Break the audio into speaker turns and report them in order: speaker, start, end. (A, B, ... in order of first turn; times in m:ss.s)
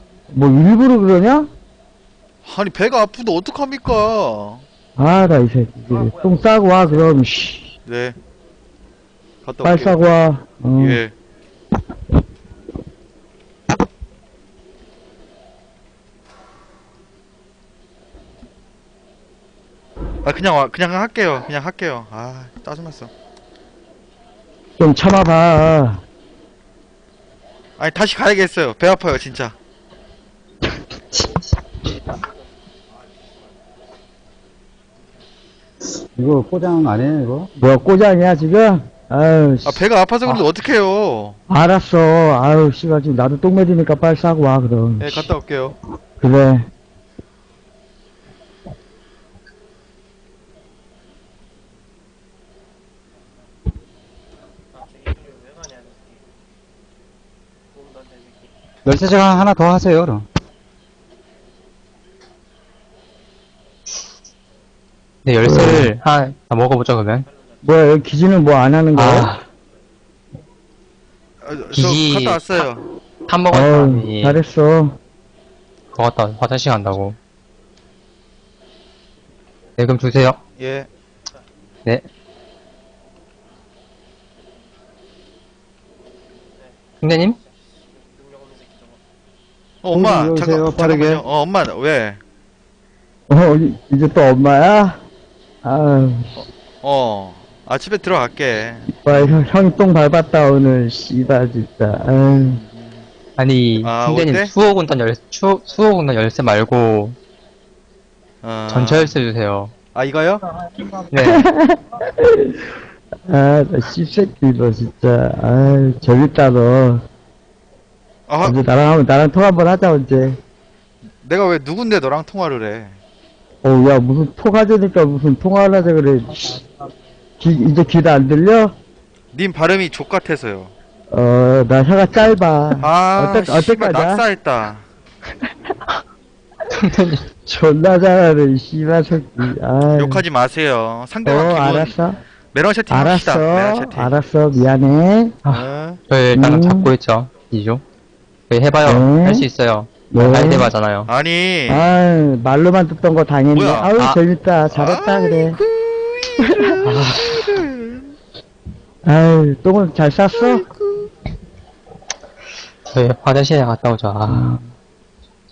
0:00.3-0:01.5 A
0:02.4-0:04.6 B
0:05.0-0:07.7 A
0:05.9-0:07.2 C
0:07.9-0:08.2 B
0:09.4-0:10.0 B
0:09.6-0:11.0 A
0:10.8-0:11.1 B
0:20.2-0:23.1 B
0:24.8-0:26.0 A
0:27.8-0:29.6 B
0:36.2-0:37.5 D
0:37.6-0:39.8 A
0:39.6-0:41.4 B
0:41.5-0:45.3 A
0:45.0-0:45.8 B
0:46.2-0:46.7 A
0:54.7-0:56.3 C
0:57.7-0:58.5 C
0:58.8-1:00.2 D
1:05.2-1:07.3 E
1:05.5-1:05.9 A
1:07.2-1:07.8 C
1:07.6-1:09.3 A
1:09.0-1:09.4 E
1:11.4-1:12.8 B
1:11.7-1:12.7 E
1:13.3-1:14.4 E
1:13.5-1:15.0 A
1:15.9-1:17.2 E
1:19.8-1:20.4 E
1:20.6-1:20.9 B
1:26.6-1:29.0 C
1:27.0-1:27.4 E
1:29.8-1:32.2 B
1:29.9-1:31.2 D
1:33.3-1:35.0 A
1:35.6-1:36.4 A
1:36.8-1:39.4 B
1:39.0-1:42.6 A
1:42.3-1:43.1 B
1:43.4-1:47.2 E
1:43.8-1:44.5 B
1:45.4-1:46.0 C
1:48.4-1:49.1 B
1:48.7-1:49.7 E
1:49.9-1:50.4 B
1:51.1-1:51.5 E
1:51.2-1:52.7 A
1:53.3-1:57.0 A
1:58.3-1:58.6 B
1:58.4-2:00.4 A
2:01.2-2:03.0 B
2:03.6-2:06.6 A
2:07.4-2:08.7 A
2:09.3-2:10.7 B
2:11.1-2:14.2 A
2:12.8-2:14.8 B
2:16.7-2:17.3 E
2:17.5-2:20.2 A
2:19.9-2:22.0 B
2:21.2-2:22.2 A
2:22.5-2:24.2 B
2:22.9-2:25.4 A
2:25.4-2:27.8 E
2:25.5-2:26.0 B
2:26.4-2:26.9 A
2:28.5-2:31.1 E
2:28.8-2:29.5 A
2:30.1-2:30.7 A
2:31.1-2:31.9 B
2:31.7-2:35.6 A
2:33.5-2:33.9 B
2:34.7-2:38.1 B
2:36.4-2:37.1 A
2:36.8-2:37.6 E
2:39.0-2:40.6 A
2:40.3-2:41.1 B
2:42.9-2:44.6 E